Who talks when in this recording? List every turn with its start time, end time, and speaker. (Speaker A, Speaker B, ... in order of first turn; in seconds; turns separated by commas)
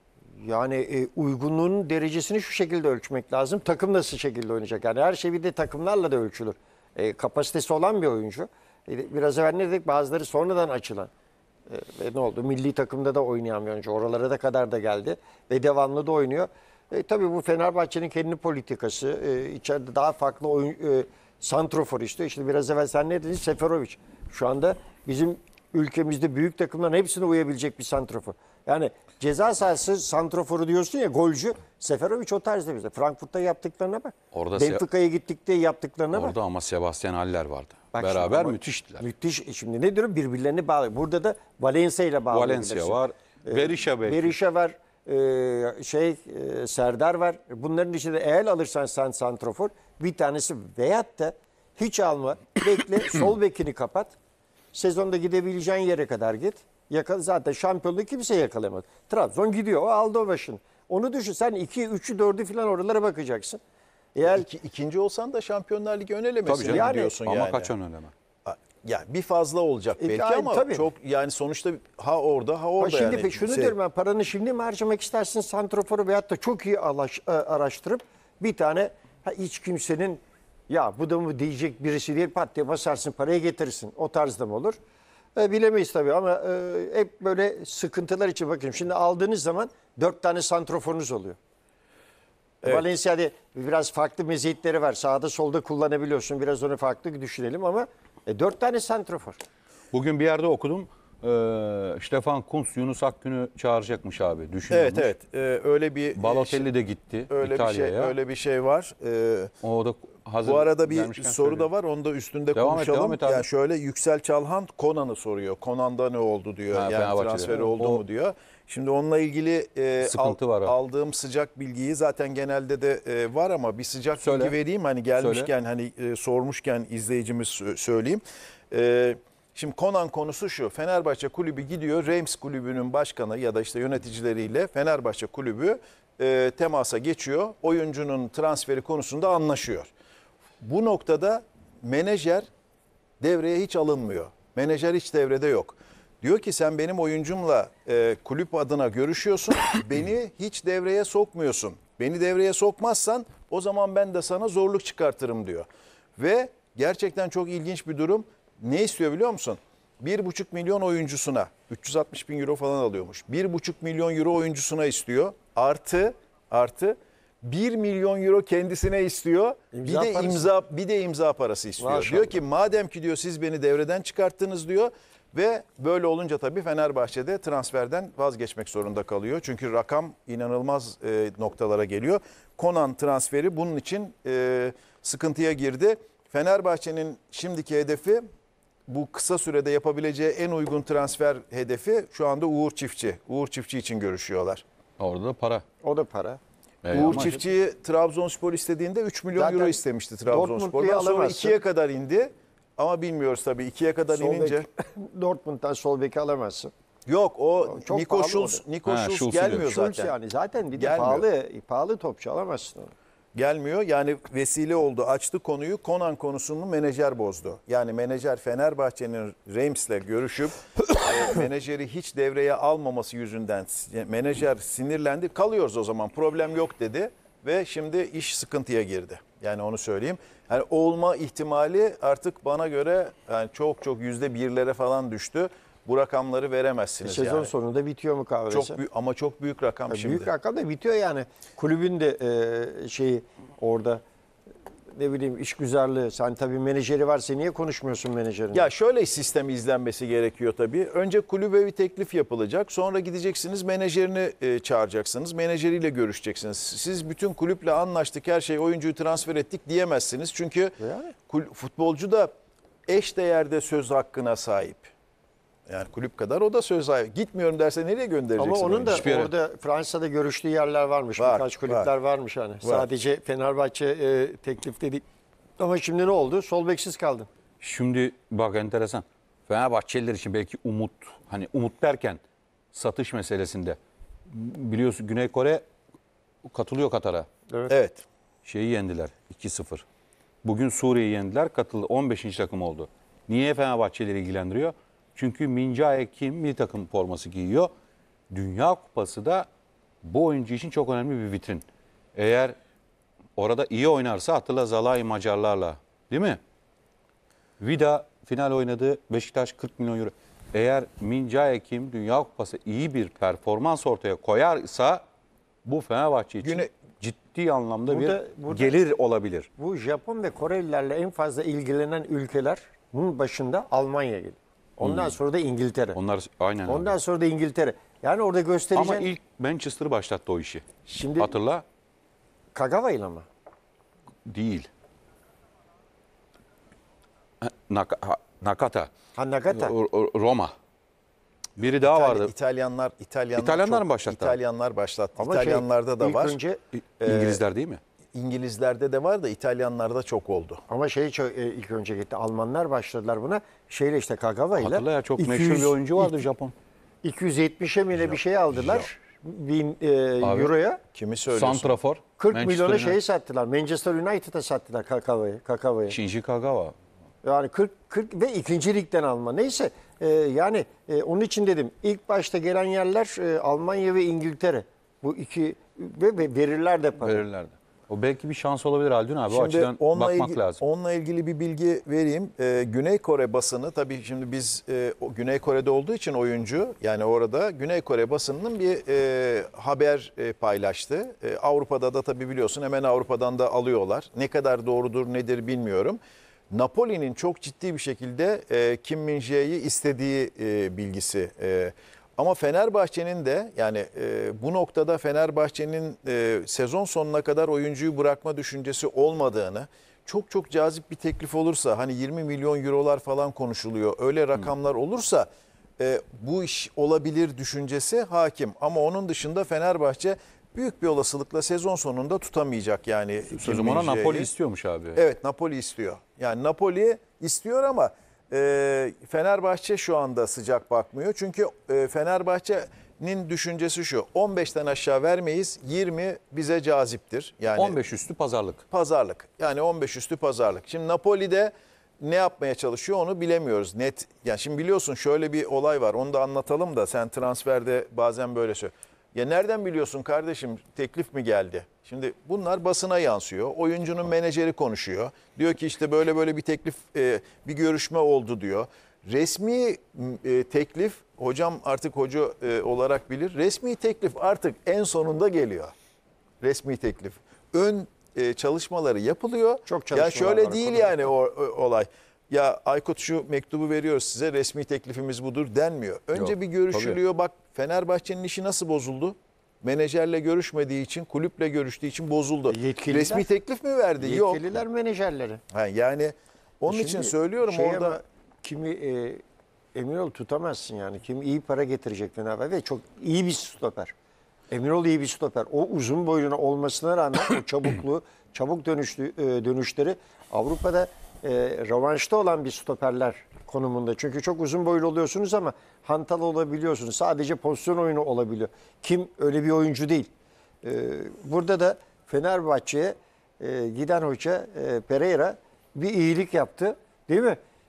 Speaker A: 0.4-11.1, Speaker A: 11.7-36.4, Speaker B: 34.3-34.8, Speaker B: 36.1-39.0, Speaker A: 37.9-54.1, Speaker B: 42.3-44.3, Speaker A: 54.7-63.6, Speaker A: 64.1-64.5, Speaker C: 64.2-67.7, Speaker B: 66.5-68.1, Speaker A: 66.6-67.2, Speaker C: 68.5-73.7, Speaker A: 70.0-70.9, Speaker A: 72.8-84.8, Speaker A: 85.3-91.4, Speaker A: 92.6-99.4, Speaker B: 99.9-105.1, Speaker C: 104.7-106.7, Speaker B: 106.2-108.1, Speaker C: 107.3-109.5, Speaker B: 109.6-111.7, Speaker C: 110.4-139.9, Speaker B: 112.5-113.5, Speaker B: 116.7-118.0, Speaker B: 120.0-120.7, Speaker B: 124.2-124.5, Speaker B: 125.2-125.5, Speaker C: 140.6-142.5, Speaker C: 143.2-155.7, Speaker C: 156.2-188.2, Speaker A: 169.7-170.5, Speaker A: 171.8-172.4, Speaker C: 188.9-194.6, Speaker B: 195.0-195.6, Speaker A: 195.8-196.4, Speaker B: 196.8-197.3, Speaker C: 196.9-204.7, Speaker A: 199.3-201.6, Speaker A: 204.1-206.7, Speaker C: 207.1-210.1, Speaker A: 207.7-208.6, Speaker B: 208.8-209.7, Speaker A: 209.5-212.9, Speaker C: 210.8-211.2, Speaker C: 213.3-237.5, Speaker A: 237.0-238.8, Speaker C: 238.5-240.3, Speaker A: 239.9-244.0, Speaker A: 244.9-248.7, Speaker C: 248.5-260.8, Speaker A: 260.8-261.1, Speaker C: 261.3-262.3, Speaker C: 262.9-264.9, Speaker C: 265.7-269.1, Speaker A: 268.4-275.0, Speaker B: 268.9-269.3, Speaker C: 271.2-271.9, Speaker C: 272.6-272.9, Speaker A: 275.6-277.3, Speaker B: 277.6-282.2, Speaker B: 282.7-285.6, Speaker B: 286.4-287.3, Speaker C: 287.7-288.0, Speaker B: 288.4-289.8, Speaker B: 290.4-297.7, Speaker B: 298.3-299.5, Speaker B: 300.0-302.6, Speaker B: 303.4-306.4, Speaker B: 307.6-315.0, Speaker B: 315.6-319.5, Speaker C: 316.4-316.7, Speaker A: 317.9-318.8, Speaker A: 319.6-326.0, Speaker B: 324.8-325.2, Speaker B: 325.9-326.9, Speaker A: 326.7-329.1, Speaker B: 328.7-330.6, Speaker A: 330.9-331.4, Speaker B: 331.2-331.6, Speaker A: 332.5-333.2, Speaker B: 334.2-334.7, Speaker B: 337.4-338.9, Speaker A: 339.1-339.7, Speaker B: 339.5-340.5, Speaker B: 341.6-342.3, Speaker C: 341.7-346.4, Speaker B: 343.3-344.4, Speaker A: 345.2-346.6, Speaker C: 347.0-347.4, Speaker B: 347.0-347.8, Speaker C: 348.1-350.6, Speaker A: 350.7-356.2, Speaker B: 354.6-356.5, Speaker A: 357.0-360.8, Speaker B: 360.2-360.5, Speaker C: 360.9-361.7, Speaker B: 361.3-363.0, Speaker A: 362.2-366.0, Speaker B: 365.9-366.7, Speaker A: 367.2-377.2, Speaker B: 377.0-380.6, Speaker C: 379.3-396.0, Speaker C: 396.5-415.3, Speaker C: 415.8-424.3, Speaker B: 423.3-425.0, Speaker C: 424.9-437.8, Speaker B: 437.6-438.6, Speaker C: 438.7-465.7, Speaker C: 466.4-484.6, Speaker A: 469.6-471.0, Speaker B: 476.1-477.0, Speaker A: 482.5-483.3, Speaker A: 484.0-485.4, Speaker C: 485.5-488.0, Speaker A: 486.7-489.2, Speaker A: 489.7-493.9, Speaker A: 494.5-510.1, Speaker A: 510.6-517.4